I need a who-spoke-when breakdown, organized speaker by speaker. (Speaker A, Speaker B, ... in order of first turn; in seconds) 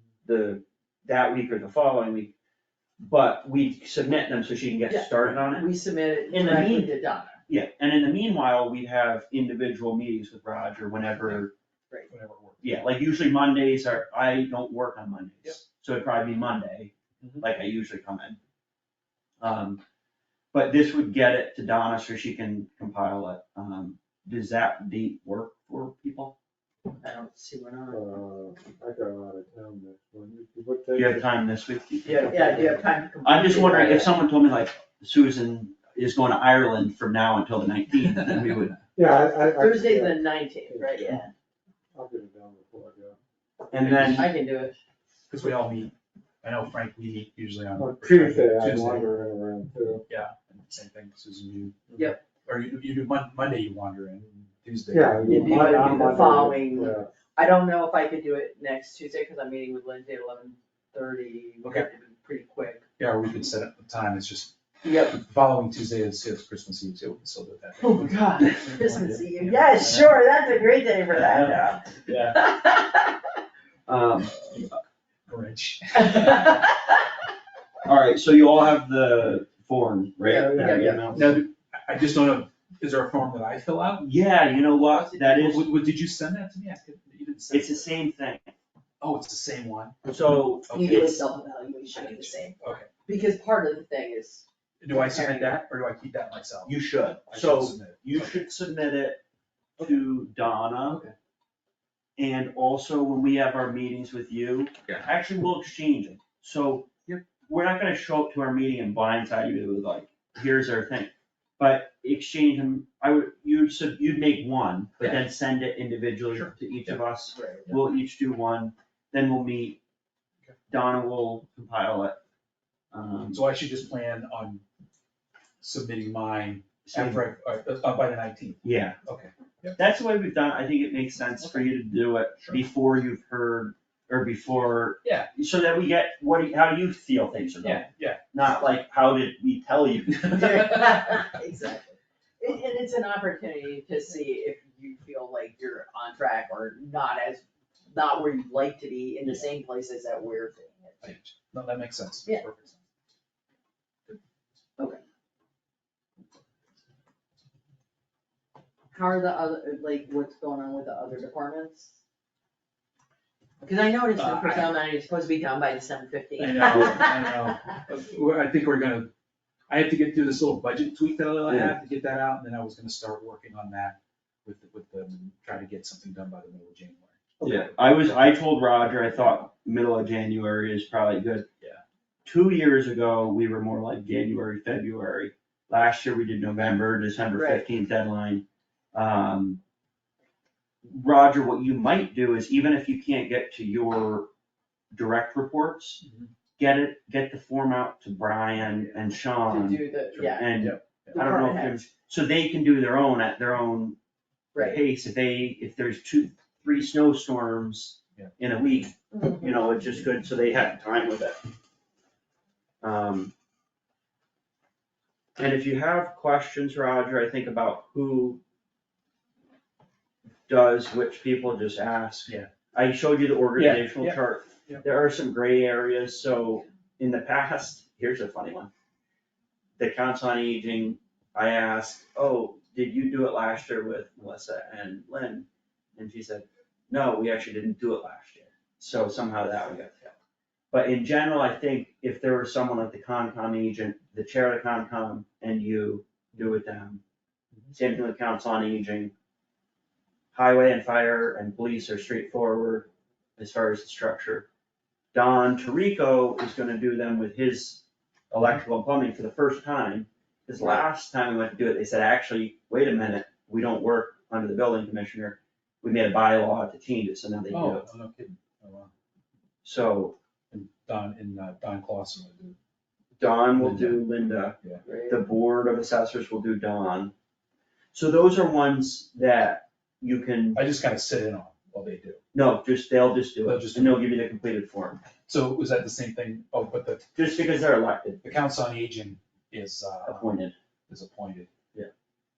Speaker A: 0.2-2.3, 3.0-5.7, 6.3-6.9, 7.5-11.5, 12.6-18.4, 19.4-19.8, 20.5-26.4, 30.9-32.6, 33.2-38.8, 43.7-44.3, 73.9-74.6, 77.9-81.4, 84.0-85.7, 87.5-88.4, 90.0-91.2, 96.7-99.2, 99.8-101.0, 102.2-106.9, 107.5-119.8, 120.7-122.2, 122.9-123.5, 126.9-127.2, 128.6-129.0, 129.8-140.8, 171.5-171.8, 177.4-181.5, 182.2-189.6, 190.8-194.3, 194.9-196.0, 196.6-204.0, 204.6-211.5, 212.8-213.3, 215.4-218.4, 220.5-228.7, 229.8-235.5, 236.0-240.1, 240.7-247.0, 247.7-249.1, 250.3-254.5, 255.1-267.9, 269.6-270.2, 273.2-274.6, 275.1-277.1, 277.9-280.6, 282.3-285.0, 287.2-288.2, 290.1-290.6
Speaker B: 4.9-7.4, 26.9-28.0, 32.0-34.1, 39.5-41.3, 44.0-44.8, 51.9-52.2, 55.2-62.9, 64.8-65.2, 67.8-73.2, 76.0-77.0, 80.3-81.0, 84.8-85.3, 90.7-95.5, 100.8-101.1, 117.3-117.7, 140.3-151.1, 158.9-162.0, 163.6-167.6, 187.3-187.6, 199.5-200.5, 201.1-201.8, 204.5-204.8, 209.1-209.5, 274.8-275.2
Speaker C: 12.1-12.8, 38.2-38.7, 43.8-44.3, 45.3-49.1, 50.1-56.3, 63.0-70.2, 71.2-72.4, 74.5-74.8, 75.3-76.6, 81.1-84.1, 85.3-87.9, 89.0-90.0, 90.7-91.0, 91.9-92.9, 94.8-96.8, 97.3-98.5, 116.3-117.0, 123.3-124.6, 125.6-129.8, 131.4-131.7, 135.0-135.3, 137.6-138.2, 151.0-152.8, 164.2-164.8, 166.4-169.1, 169.7-177.7, 196.0-196.3, 200.2-201.2, 223.6-224.8, 267.5-268.9, 270.5-272.6, 273.6-274.1, 280.6-282.2, 283.4-284.1, 285.3-287.1, 288.2-290.3, 290.9-291.5
Speaker D: 27.9-31.2, 32.2-32.8, 39.0-41.2, 41.9-43.2, 47.8-50.0, 54.9-57.1, 80.3-81.0